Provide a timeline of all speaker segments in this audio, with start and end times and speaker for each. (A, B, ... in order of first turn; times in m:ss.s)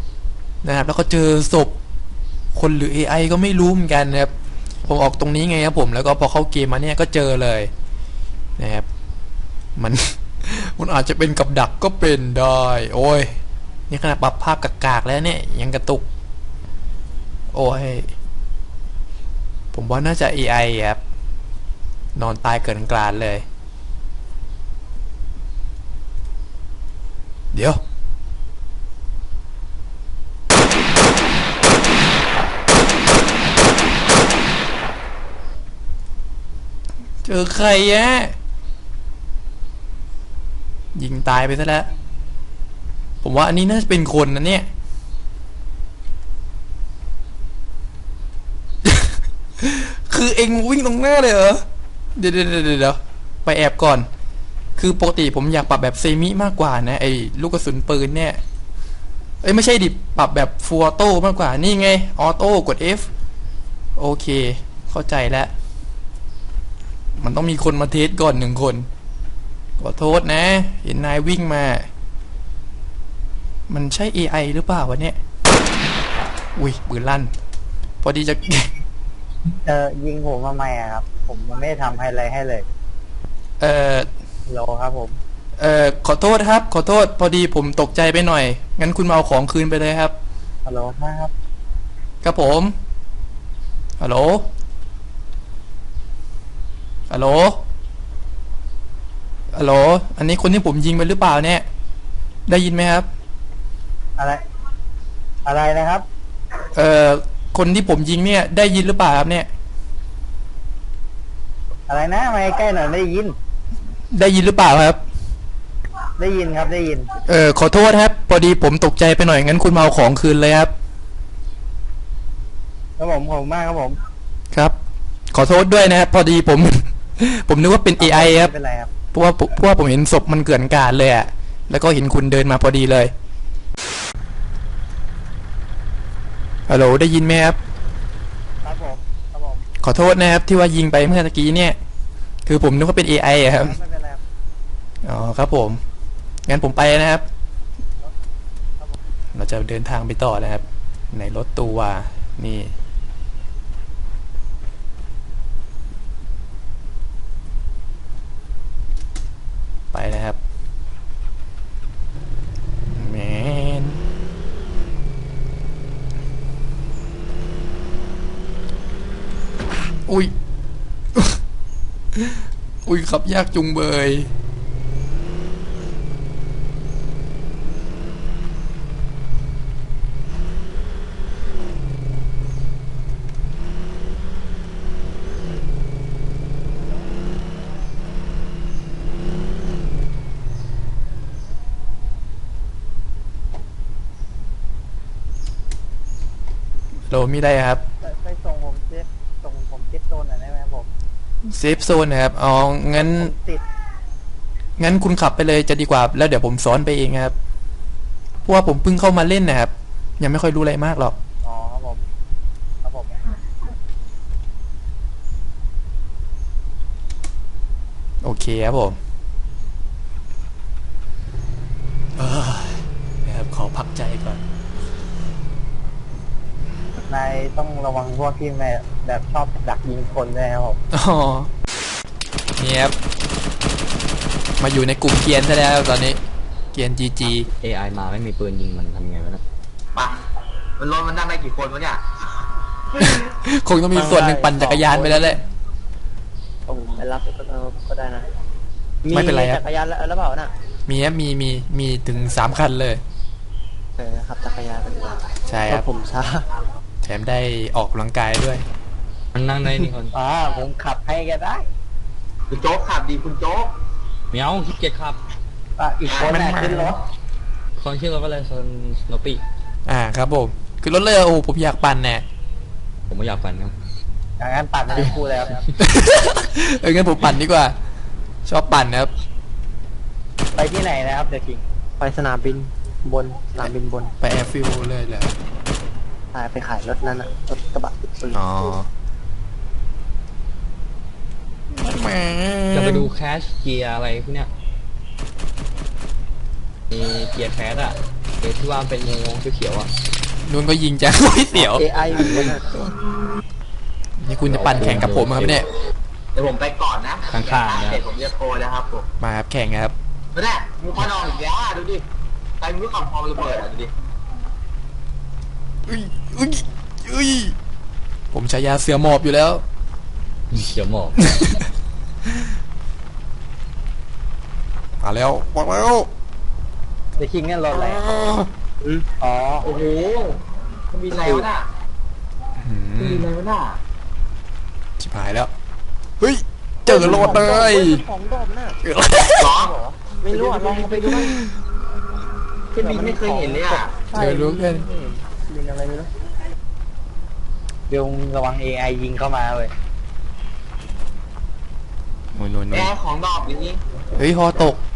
0:00.6-0:01.8 A
0:02.5-0:04.3 A
0:04.8-0:07.7 A
0:08.6-0:08.8 A
0:09.8-0:13.4 A
0:13.9-0:16.0 A
0:17.5-0:18.1 A
0:19.7-0:21.0 A
0:22.2-0:23.4 A
0:27.5-0:27.8 A
0:37.2-0:38.3 A
0:40.9-0:41.9 A
0:43.2-0:44.7 A
0:48.8-0:51.6 A
0:52.2-0:54.1 A
0:54.8-0:58.4 A
0:59.4-1:03.1 A
1:04.0-1:05.5 A
1:07.2-1:08.9 A
1:09.8-1:11.9 A
1:13.7-1:15.2 A
1:16.5-1:17.3 A
1:18.0-1:18.7 A
1:19.6-1:22.6 B
1:23.6-1:24.1 A
1:24.5-1:25.2 B
1:25.6-1:30.1 A
1:30.6-1:31.3 B
1:32.2-1:32.7 A
1:34.0-1:34.5 A
1:37.1-1:37.6 A
1:39.5-1:41.6 A
1:42.5-1:43.1 A
1:45.4-1:46.0 B
1:46.7-1:49.5 A
1:51.9-1:53.4 B
1:54.1-1:55.0 A
1:56.2-1:57.1 B
1:57.2-2:00.7 A
2:03.0-2:04.0 B
2:05.3-2:08.5 A
2:08.0-2:08.9 B
2:09.1-2:13.1 A
2:16.7-2:17.6 A
2:18.6-2:19.6 B
2:19.8-2:21.8 A
2:22.4-2:23.8 A
2:23.4-2:24.2 B
2:25.0-2:25.8 A
2:26.4-2:27.2 A
2:29.3-2:32.7 A
2:39.9-2:40.4 A
2:42.9-2:44.0 A
2:50.1-2:50.3 A
2:51.1-2:51.4 A
2:52.1-2:54.3 A
3:17.1-3:17.8 A
3:18.0-3:20.9 B
3:21.4-3:23.3 A
3:22.9-3:23.6 B
3:24.8-3:27.3 A
3:28.4-3:31.2 A
3:31.4-3:32.0 B
3:32.8-3:33.2 B
3:38.2-3:39.0 A
3:42.2-3:44.4 A
3:47.1-3:50.8 B
3:50.9-3:51.5 A
3:52.6-3:53.0 A
3:54.6-3:56.2 A
3:56.7-3:57.5 A
3:57.5-3:59.4 C
3:59.9-4:00.2 D
4:00.8-4:02.2 D
4:03.0-4:05.4 A
4:03.9-4:05.4 B
4:06.7-4:08.3 B
4:09.0-4:10.5 B
4:09.1-4:09.6 A
4:10.9-4:13.0 A
4:14.0-4:16.4 B
4:15.5-4:15.9 A
4:17.0-4:18.6 A
4:19.3-4:20.1 C
4:20.1-4:21.7 B
4:22.5-4:23.7 D
4:24.3-4:25.2 C
4:25.8-4:27.0 B
4:26.1-4:26.4 D
4:26.3-4:27.0 A
4:27.8-4:29.4 C
4:29.8-4:32.2 A
4:33.1-4:33.7 C
4:34.4-4:35.6 B
4:35.8-4:37.7 A
4:38.4-4:39.1 A
4:40.6-4:44.1 B
4:44.2-4:45.3 A
4:46.3-4:48.5 B
4:48.3-4:48.9 A
4:51.7-4:53.1 A
4:52.7-4:54.5 C
4:56.9-4:59.9 C
5:00.4-5:02.9 A
5:01.6-5:02.6 B
5:04.2-5:05.7 A
5:04.4-5:05.6 C
5:06.3-5:09.0 D
5:07.3-5:08.0 C
5:09.2-5:09.9 A
5:10.3-5:12.0 D
5:12.6-5:13.9 D
5:15.8-5:17.5 A
5:18.3-5:19.6 A
5:20.5-5:21.6 C
5:25.0-5:26.1 A
5:27.2-5:28.0 B
5:27.7-5:28.5 A
5:28.8-5:29.7 B
5:29.6-5:31.7 D
5:31.2-5:31.5 B
5:32.6-5:33.3 A
5:33.0-5:33.8 D
5:35.0-5:35.5 A
5:36.2-5:38.0 A
5:36.8-5:38.8 B
5:38.8-5:39.6 A
5:39.4-5:39.8 D
5:39.6-5:41.3 B
5:40.3-5:41.0 D
5:41.0-5:41.5 A
5:42.7-5:44.0 D
5:42.8-5:46.1 B
5:44.1-5:44.9 A
5:47.9-5:49.7 B
5:52.3-5:52.9 A
5:52.7-5:53.8 D
5:54.1-5:54.8 A